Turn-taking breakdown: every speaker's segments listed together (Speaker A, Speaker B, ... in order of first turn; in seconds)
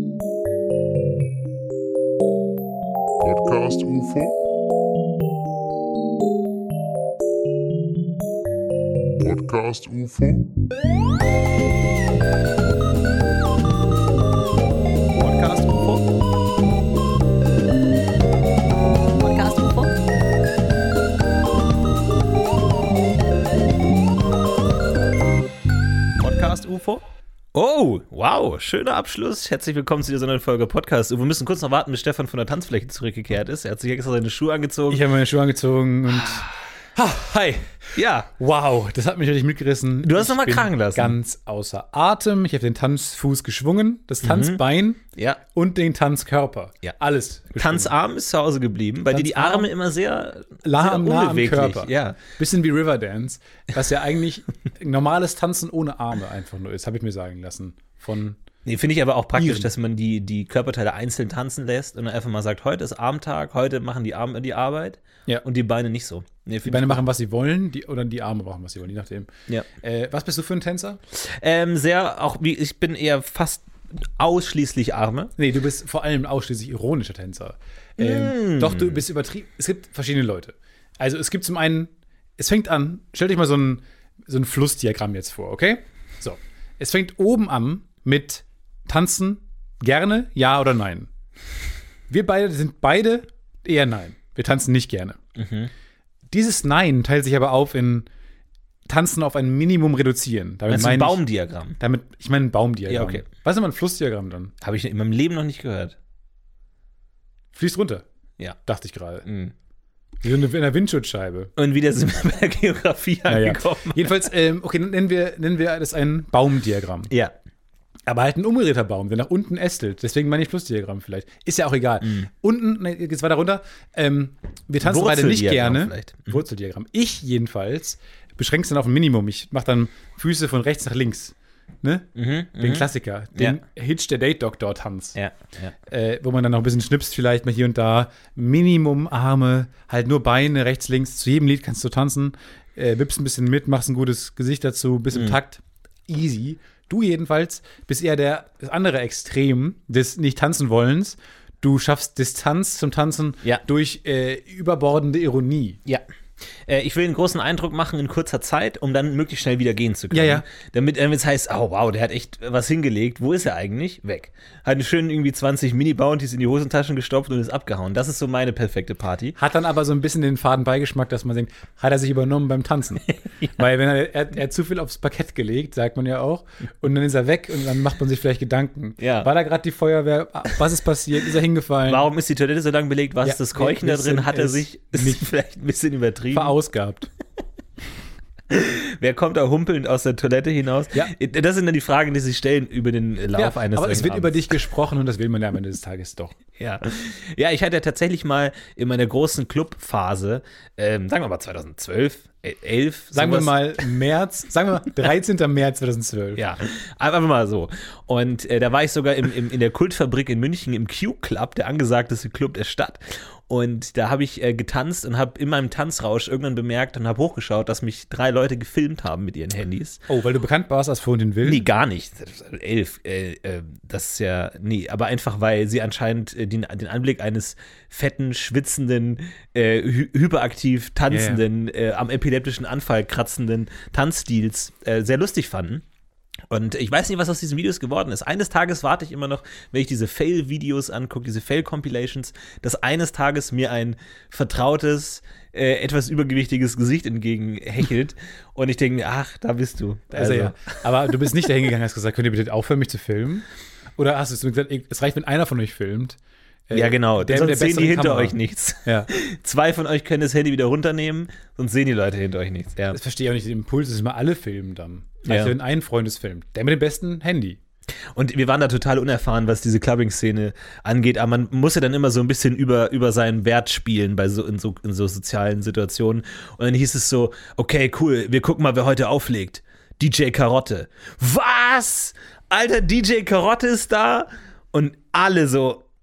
Speaker A: 3.2-4.3, 9.2-10.4
Speaker B: 15.1-16.1, 19.2-19.9, 26.2-27.0, 27.5-35.0, 37.9-38.3, 40.0-41.1, 44.2-44.6, 47.6-52.2, 58.6-67.0, 71.1-75.3, 78.0-79.0, 95.3-95.7, 100.7-101.8, 102.9-103.2, 104.6-106.0, 109.2-109.5, 111.5-114.1, 122.0-122.3, 124.8-126.4, 132.2-133.6, 135.1-135.7, 145.1-145.4, 156.7-169.3, 179.0-179.3, 181.8-186.5, 188.5-194.6, 196.6-203.6, 206.3-220.0, 221.4-235.8, 236.5-251.2, 256.7-263.0, 265.2-265.5, 268.1-285.8
Speaker C: 34.9-37.8, 38.3-45.0, 45.5-47.9, 49.1-49.7, 50.6-58.4, 59.3-59.7, 66.6-71.0, 75.4-91.1, 92.1-95.2, 96.3-98.1, 98.8-101.2, 101.8-104.5, 107.5-108.0, 108.7-109.2, 110.2-111.5, 113.3-117.1, 118.1-135.1, 135.8-155.8, 160.1-160.4, 169.4-182.1, 183.2-185.2, 186.3-187.1, 193.3-196.4, 203.1-206.4, 220.1-221.7, 231.1-231.4, 250.1-256.2, 256.7-259.1, 262.9-267.6